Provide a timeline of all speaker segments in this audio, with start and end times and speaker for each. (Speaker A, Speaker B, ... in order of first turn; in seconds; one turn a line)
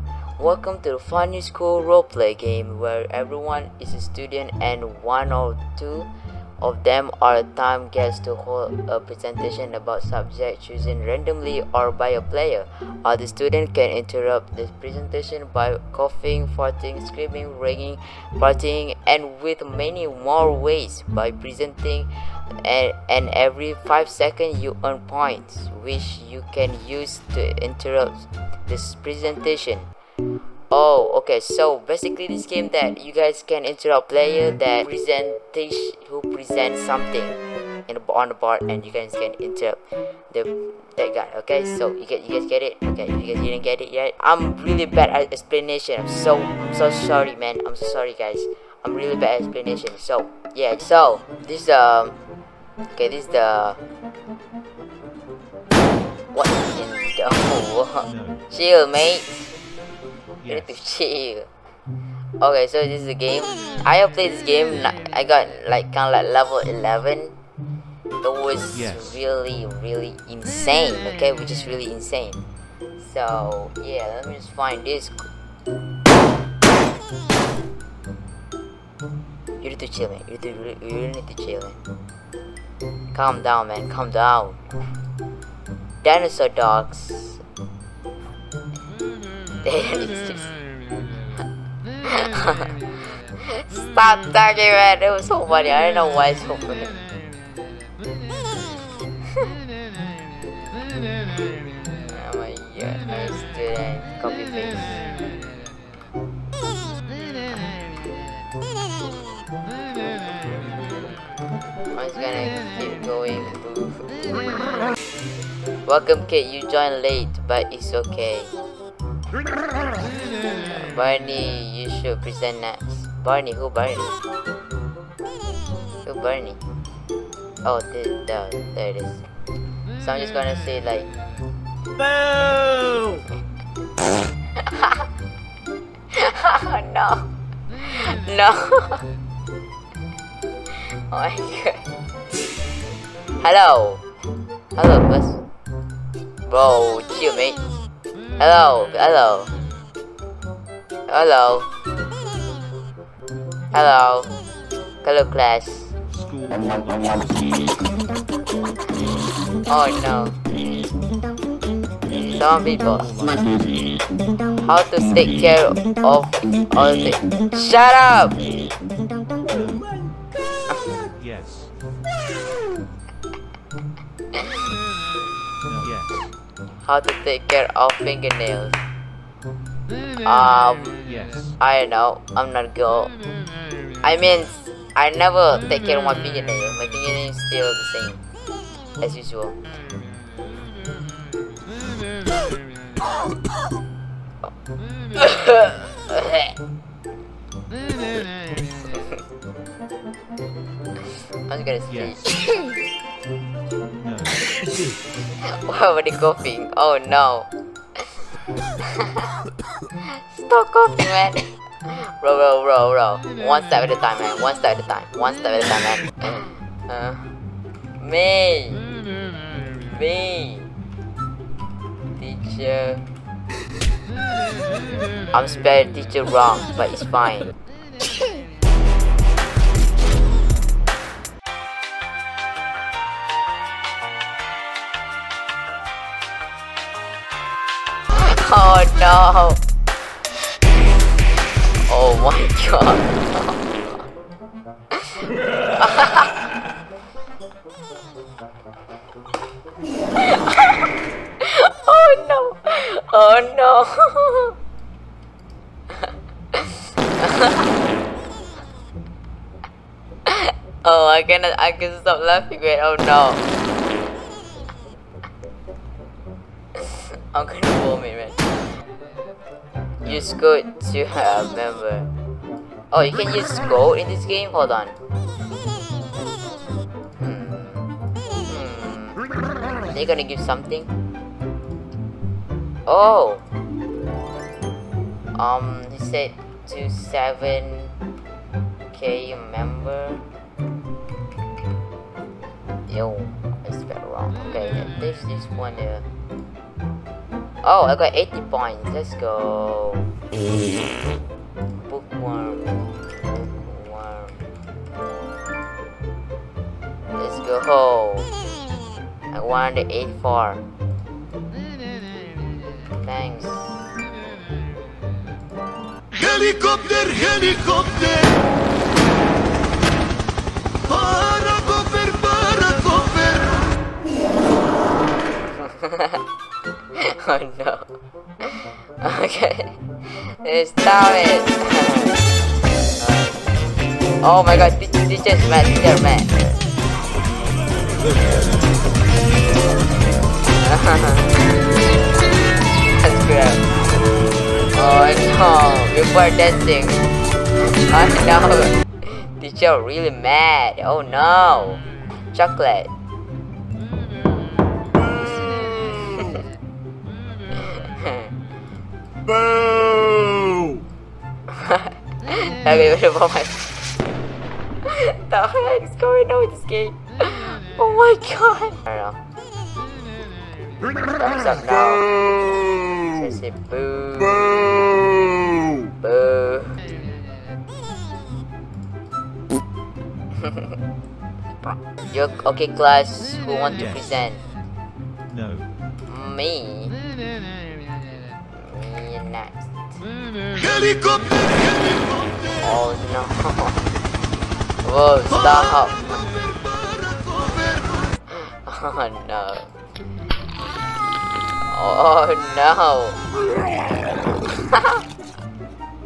Speaker A: 0.4-22.1
Speaker A: 22.6-29.9
Speaker A: 30.7-52.2
Speaker A: 53.0-53.8
Speaker A: 56.3-59.5
Speaker B: 58.1-58.4
Speaker B: 60.4-60.7
Speaker A: 60.5-61.5
Speaker A: 62.4-67.3
Speaker A: 68.2-72.4
Speaker B: 68.7-69.2
Speaker A: 73.0-75.3
Speaker A: 79.6-81.8
Speaker A: 83.1-84.6
Speaker A: 86.0-87.4
Speaker A: 89.6-90.5
Speaker A: 92.0-97.0
Speaker A: 102.1-105.0
Speaker A: 111.9-114.7
Speaker A: 115.9-118.5
Speaker A: 120.6-124.2
Speaker A: 126.0-126.6
Speaker A: 127.6-129.2
Speaker A: 130.0-131.1
Speaker B: 132.2-132.6
Speaker A: 134.6-135.1
Speaker A: 136.1-139.1
Speaker A: 140.7-141.9
Speaker A: 143.4-144.0
Speaker A: 144.8-145.4
Speaker A: 146.5-147.6
Speaker A: 148.4-149.5
Speaker A: 151.1-151.7
Speaker A: 153.7-154.3
Speaker A: 155.0-155.9
Speaker B: 156.1-157.8
Speaker A: 159.7-160.4
Speaker A: 162.1-163.1
Speaker B: 163.0-163.7
Speaker A: 164.5-168.5
Speaker B: 169.5-169.8
Speaker B: 171.1-171.7
Speaker B: 175.7-176.1
Speaker A: 176.8-178.8
Speaker A: 180.2-181.0
Speaker B: 181.0-181.6
Speaker A: 181.6-183.1
Speaker A: 184.0-188.2
Speaker A: 189.0-189.6
Speaker A: 195.2-196.6
Speaker A: 201.5-202.3
Speaker B: 201.9-202.2
Speaker B: 204.0-204.5
Speaker A: 205.4-208.2
Speaker A: 208.8-209.3
Speaker A: 210.0-217.3
Speaker A: 218.0-218.9
Speaker A: 219.9-220.7
Speaker A: 222.2-223.0
Speaker A: 225.3-227.5
Speaker A: 238.1-239.6
Speaker A: 241.9-243.6
Speaker A: 244.9-246.5
Speaker A: 250.2-254.6
Speaker A: 255.9-257.7
Speaker A: 260.3-263.4
Speaker A: 266.8-268.6
Speaker A: 270.0-272.1
Speaker A: 272.9-275.0
Speaker A: 277.2-277.9
Speaker A: 278.4-279.2
Speaker A: 279.9-280.9
Speaker A: 282.9-283.4
Speaker A: 285.4-287.9
Speaker A: 288.9-290.2
Speaker A: 292.9-296.1
Speaker A: 297.6-300.1
Speaker A: 301.8-304.5
Speaker A: 307.1-308.3
Speaker A: 309.3-310.6
Speaker A: 312.9-314.0
Speaker C: 316.2-318.2
Speaker C: 321.5-322.8
Speaker A: 325.5-326.2
Speaker A: 327.0-332.2
Speaker A: 333.0-333.6
Speaker A: 334.2-336.6
Speaker A: 340.6-341.5
Speaker A: 342.8-343.6
Speaker A: 344.7-347.1
Speaker A: 347.6-352.9
Speaker A: 354.9-356.4
Speaker A: 357.6-358.3
Speaker A: 359.3-360.2
Speaker A: 361.5-363.7
Speaker A: 364.9-369.2
Speaker A: 371.0-372.2
Speaker A: 373.0-374.8
Speaker A: 376.0-376.8
Speaker A: 380.4-380.8
Speaker A: 382.1-384.4
Speaker B: 383.8-384.1
Speaker B: 385.3-385.7
Speaker A: 386.1-387.0
Speaker A: 388.4-389.9
Speaker A: 392.5-393.8
Speaker A: 394.8-396.3
Speaker A: 398.3-399.7
Speaker A: 401.7-403.2
Speaker A: 404.5-405.0